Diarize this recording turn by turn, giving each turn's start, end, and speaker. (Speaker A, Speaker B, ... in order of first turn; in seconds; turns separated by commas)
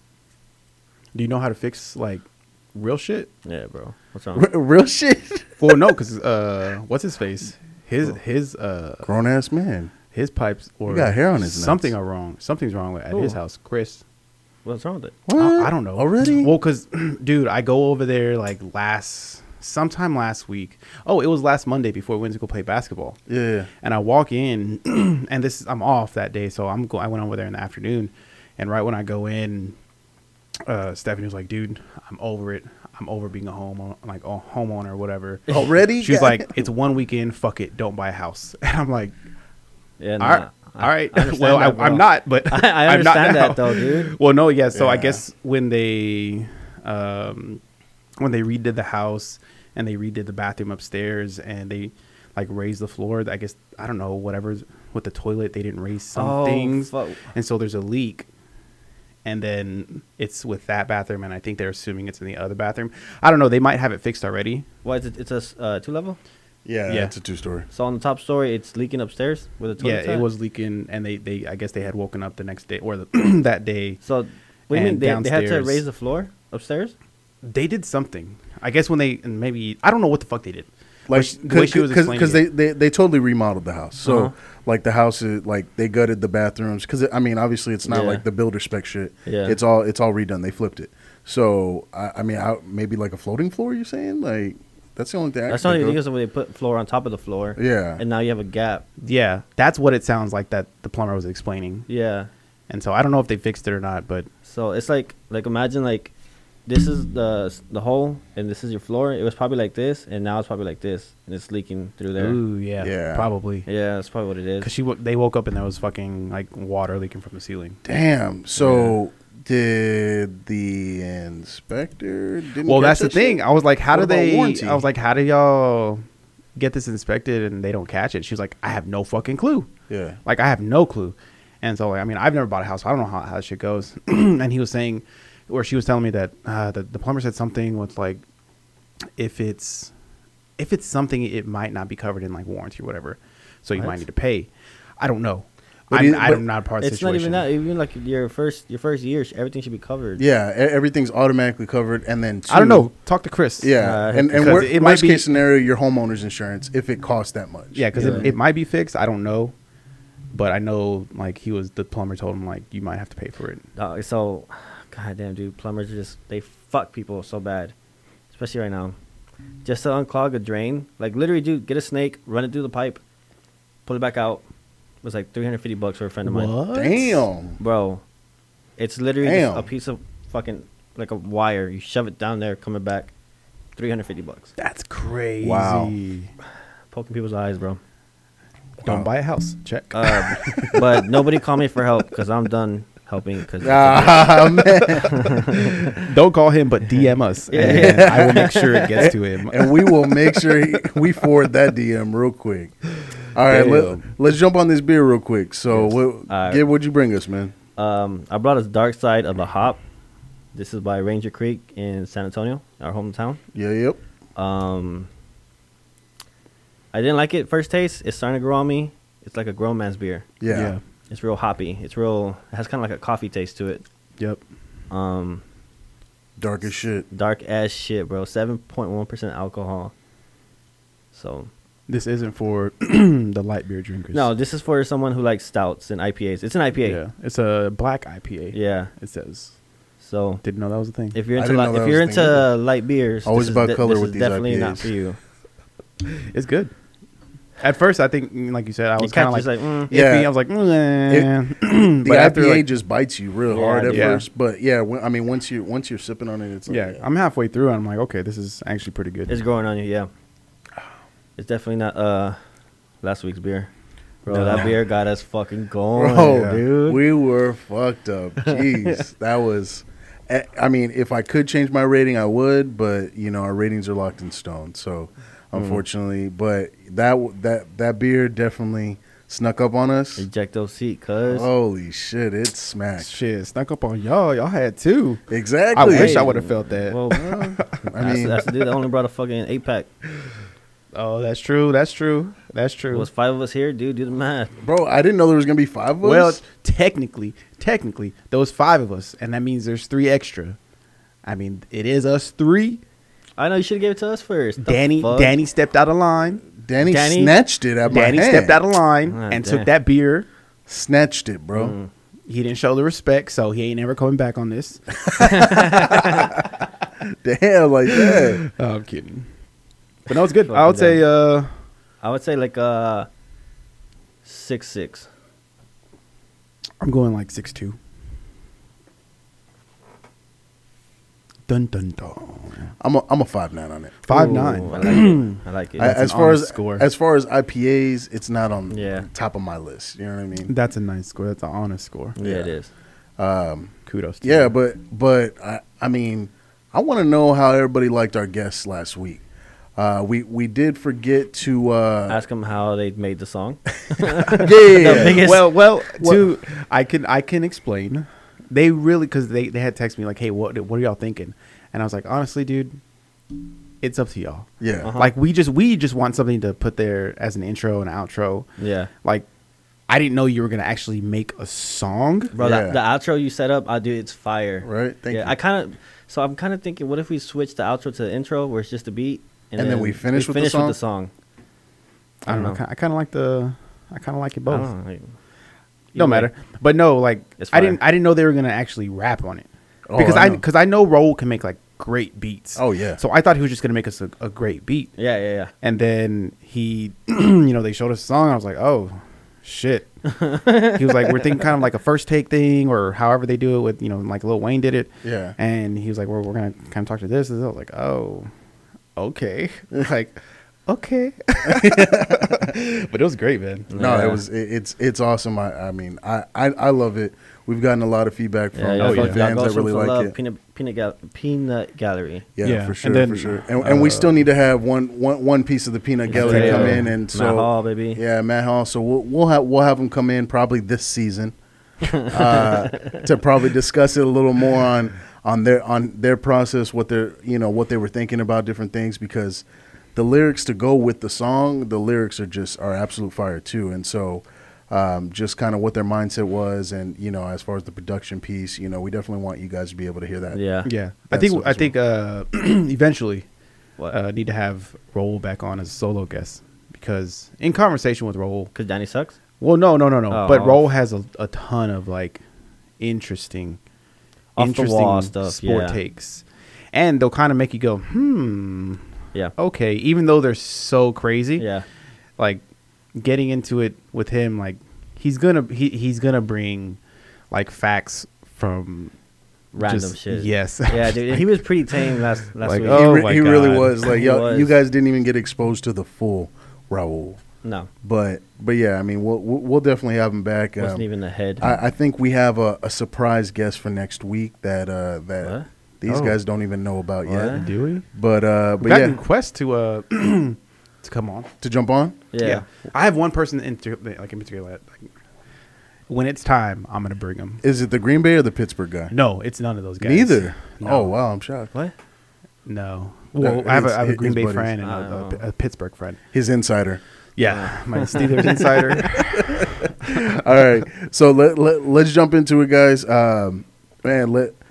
Speaker A: 1.1-2.2, Speaker A: 2.8-3.3, Speaker B: 3.4-4.5, Speaker C: 4.3-5.9, Speaker A: 5.6-9.1, Speaker C: 9.1-9.9, Speaker A: 10.1-14.0, Speaker C: 10.9-11.9, Speaker B: 13.1-13.4, Speaker B: 14.6-15.2, Speaker C: 15.2-16.5, Speaker A: 15.4-23.2, Speaker C: 23.3-23.7, Speaker A: 23.8-29.8, Speaker A: 30.7-39.1, Speaker C: 35.5-36.7, Speaker B: 40.0-44.1, Speaker A: 40.2-47.6, Speaker C: 44.7-45.2, Speaker A: 48.2-58.3, Speaker B: 56.1-57.2, Speaker A: 59.2-64.7, Speaker B: 64.8-66.2, Speaker C: 66.6-67.7, Speaker A: 66.9-67.1, Speaker B: 67.7-70.2, Speaker A: 69.8-74.0, Speaker B: 74.0-76.9, Speaker A: 74.7-75.8, Speaker A: 77.4-82.5, Speaker C: 81.1-96.0, Speaker B: 84.0-84.3, Speaker B: 87.8-88.2, Speaker B: 89.2-89.6, Speaker B: 95.5-98.9, Speaker C: 97.6-98.0, Speaker A: 99.0-101.9, Speaker B: 101.9-102.3, Speaker A: 102.7-104.3, Speaker B: 104.5-106.1, Speaker B: 106.7-112.4, Speaker A: 112.2-113.7, Speaker C: 112.8-113.3, Speaker B: 113.7-114.7, Speaker A: 114.6-117.8, Speaker C: 117.8-124.9, Speaker A: 118.6-119.0, Speaker A: 122.6-126.0, Speaker A: 126.6-129.7, Speaker C: 129.9-130.2, Speaker A: 130.2-138.2, Speaker A: 139.2-139.9, Speaker A: 140.6-144.5, Speaker B: 143.8-144.0, Speaker A: 145.0-147.4, Speaker C: 145.9-146.4, Speaker B: 146.8-150.2, Speaker C: 150.2-152.9, Speaker A: 152.5-153.7, Speaker C: 153.6-158.4, Speaker B: 153.8-154.7, Speaker A: 154.4-155.3, Speaker A: 157.8-159.5, Speaker B: 157.9-158.3, Speaker A: 160.3-163.6, Speaker B: 163.8-167.7, Speaker B: 168.3-168.9, Speaker B: 169.6-173.0, Speaker B: 173.9-174.4, Speaker B: 175.0-176.5, Speaker A: 176.2-177.2, Speaker C: 176.7-177.6, Speaker B: 177.6-178.0, Speaker B: 178.8-183.1, Speaker C: 179.2-179.7, Speaker B: 183.8-184.5, Speaker A: 184.6-186.3, Speaker C: 185.4-185.9, Speaker B: 186.9-187.8, Speaker C: 188.8-189.1, Speaker A: 188.8-190.8, Speaker B: 189.9-195.9, Speaker C: 193.6-195.2, Speaker A: 195.6-199.7, Speaker B: 197.5-199.1, Speaker C: 197.6-202.7, Speaker C: 203.3-207.5, Speaker A: 203.4-204.1, Speaker B: 205.8-206.6, Speaker B: 207.8-209.8, Speaker B: 210.5-213.4, Speaker C: 213.5-214.0, Speaker B: 214.4-215.1, Speaker B: 216.9-220.3, Speaker C: 220.4-220.8, Speaker A: 220.5-220.8, Speaker B: 221.1-223.8, Speaker B: 224.9-225.4, Speaker C: 226.4-227.1, Speaker B: 227.1-229.9, Speaker B: 231.1-231.5, Speaker A: 231.9-234.3, Speaker B: 234.1-237.0, Speaker A: 236.8-239.5, Speaker B: 238.5-238.9, Speaker B: 240.0-240.4, Speaker A: 240.4-241.2, Speaker B: 241.1-245.2, Speaker C: 241.4-242.5, Speaker C: 243.2-244.9, Speaker A: 246.1-246.7, Speaker A: 247.6-252.7, Speaker B: 249.0-249.9, Speaker C: 249.9-250.3, Speaker C: 252.0-257.0, Speaker B: 253.5-254.2, Speaker A: 253.9-254.2, Speaker A: 256.7-259.4, Speaker B: 259.3-260.1, Speaker B: 261.4-262.4, Speaker B: 263.0-263.7, Speaker B: 264.2-267.0, Speaker C: 264.3-264.8, Speaker A: 264.4-264.7, Speaker C: 265.9-280.2, Speaker B: 268.4-269.0, Speaker B: 275.5-275.8, Speaker B: 280.2-281.5, Speaker C: 281.3-283.1, Speaker A: 283.0-287.8, Speaker C: 285.3-286.3, Speaker B: 285.8-289.9, Speaker C: 287.2-288.5, Speaker A: 290.9-293.1, Speaker B: 292.9-294.5, Speaker C: 294.6-296.4, Speaker A: 296.0-300.6, Speaker A: 301.2-302.8, Speaker B: 303.4-305.4, Speaker A: 304.6-306.5, Speaker C: 306.5-308.6, Speaker B: 306.8-307.4, Speaker A: 307.9-310.3, Speaker B: 309.1-309.7, Speaker C: 310.7-311.8, Speaker B: 311.5-311.9, Speaker A: 312.3-316.3, Speaker C: 315.1-316.0, Speaker B: 315.2-316.4, Speaker C: 317.2-318.4, Speaker A: 317.9-319.3, Speaker A: 320.1-321.5, Speaker B: 320.1-321.0, Speaker B: 322.0-323.1, Speaker B: 324.2-325.1, Speaker A: 326.8-327.8, Speaker A: 331.5-332.7, Speaker C: 332.8-334.0, Speaker A: 334.1-336.9, Speaker B: 334.1-335.9, Speaker C: 335.8-340.5, Speaker B: 338.7-339.1, Speaker A: 340.5-342.1, Speaker B: 342.1-342.7, Speaker C: 342.2-342.5, Speaker C: 343.2-349.2, Speaker A: 343.9-344.5, Speaker C: 349.8-352.2, Speaker B: 352.1-355.5, Speaker C: 354.3-355.3, Speaker A: 354.8-362.8, Speaker A: 363.8-368.5, Speaker C: 364.6-364.9, Speaker B: 364.8-365.1, Speaker B: 368.6-368.9, Speaker A: 369.9-372.4, Speaker B: 372.3-381.1, Speaker C: 372.4-372.8, Speaker C: 374.6-375.4, Speaker C: 379.6-380.8, Speaker B: 382.2-382.6, Speaker A: 382.2-384.7, Speaker B: 384.5-385.1, Speaker B: 385.9-386.3, Speaker A: 385.9-394.9, Speaker B: 387.4-387.8, Speaker C: 389.9-390.4, Speaker C: 392.6-393.0, Speaker B: 395.0-395.5, Speaker A: 395.6-408.3, Speaker B: 400.1-401.2, Speaker C: 405.0-405.4, Speaker A: 409.0-413.7, Speaker C: 411.4-412.5, Speaker B: 413.7-414.2, Speaker C: 413.8-420.1, Speaker B: 418.5-422.3, Speaker A: 418.8-419.2, Speaker C: 422.4-431.4, Speaker A: 422.4-424.1, Speaker B: 426.1-428.0, Speaker A: 426.1-426.9, Speaker B: 431.9-433.0, Speaker C: 432.0-450.4, Speaker B: 450.3-450.7, Speaker A: 450.6-453.2, Speaker C: 451.1-451.7, Speaker A: 453.9-458.5, Speaker B: 458.5-459.2, Speaker A: 459.4-462.2, Speaker B: 460.1-460.6, Speaker A: 462.8-463.6, Speaker B: 464.4-465.8, Speaker A: 464.4-468.9, Speaker A: 469.4-471.5, Speaker B: 471.4-471.6, Speaker A: 472.2-472.4, Speaker A: 472.9-476.8, Speaker A: 477.3-478.9, Speaker B: 479.5-483.2, Speaker A: 479.6-483.8, Speaker C: 482.6-487.2, Speaker B: 483.8-484.5, Speaker B: 487.4-487.7, Speaker C: 487.8-490.9, Speaker B: 490.6-491.4, Speaker C: 491.4-497.4, Speaker A: 495.9-496.2, Speaker B: 497.0-497.5, Speaker A: 497.3-497.9, Speaker C: 497.9-499.0, Speaker A: 498.6-501.3, Speaker C: 501.4-502.0, Speaker B: 502.1-502.4, Speaker A: 502.2-504.9, Speaker A: 505.9-507.4, Speaker C: 507.4-508.9, Speaker A: 508.9-510.9, Speaker C: 509.8-511.5, Speaker A: 512.5-516.0, Speaker C: 513.2-514.5, Speaker B: 514.6-515.2, Speaker C: 516.1-516.8, Speaker A: 517.2-519.7, Speaker B: 517.2-518.5, Speaker C: 518.8-524.4